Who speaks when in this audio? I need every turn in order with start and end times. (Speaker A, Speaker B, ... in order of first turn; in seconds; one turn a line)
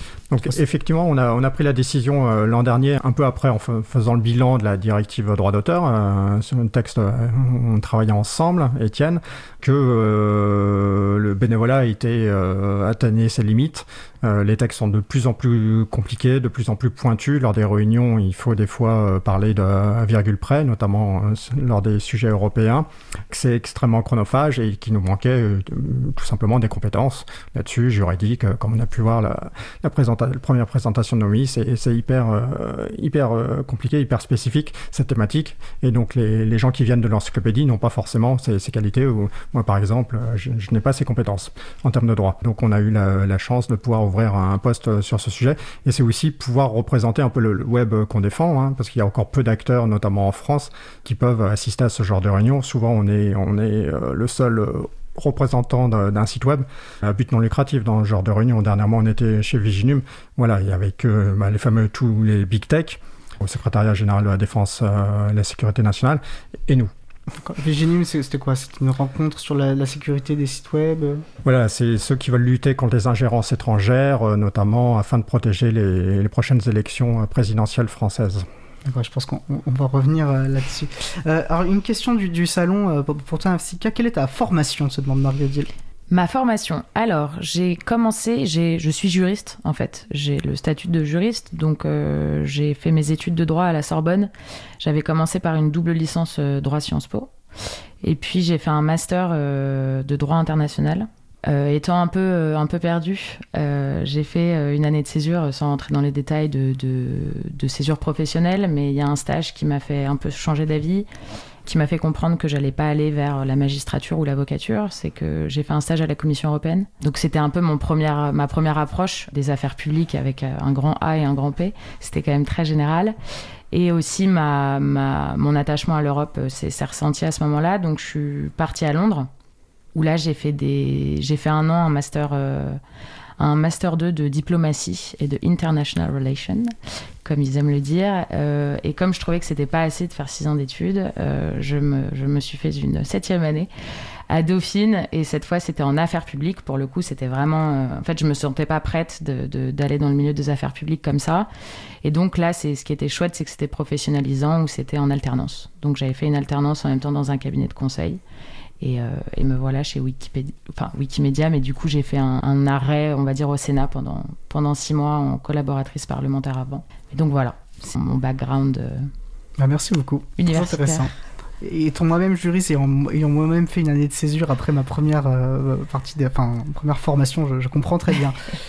Speaker A: 0.3-66.9
Speaker B: 67.4-71.2
Speaker A: 71.4-78.5
Speaker B: 78.9-85.7
Speaker C: 86.1-97.3
Speaker C: 98.0-111.1
Speaker C: 111.7-123.2
Speaker C: 123.7-129.3
Speaker C: 129.9-132.8
Speaker C: 133.4-143.7
Speaker C: 144.3-151.5
Speaker C: 152.0-158.2
Speaker C: 158.8-169.1
Speaker B: 169.6-178.5
Speaker C: 170.4-171.1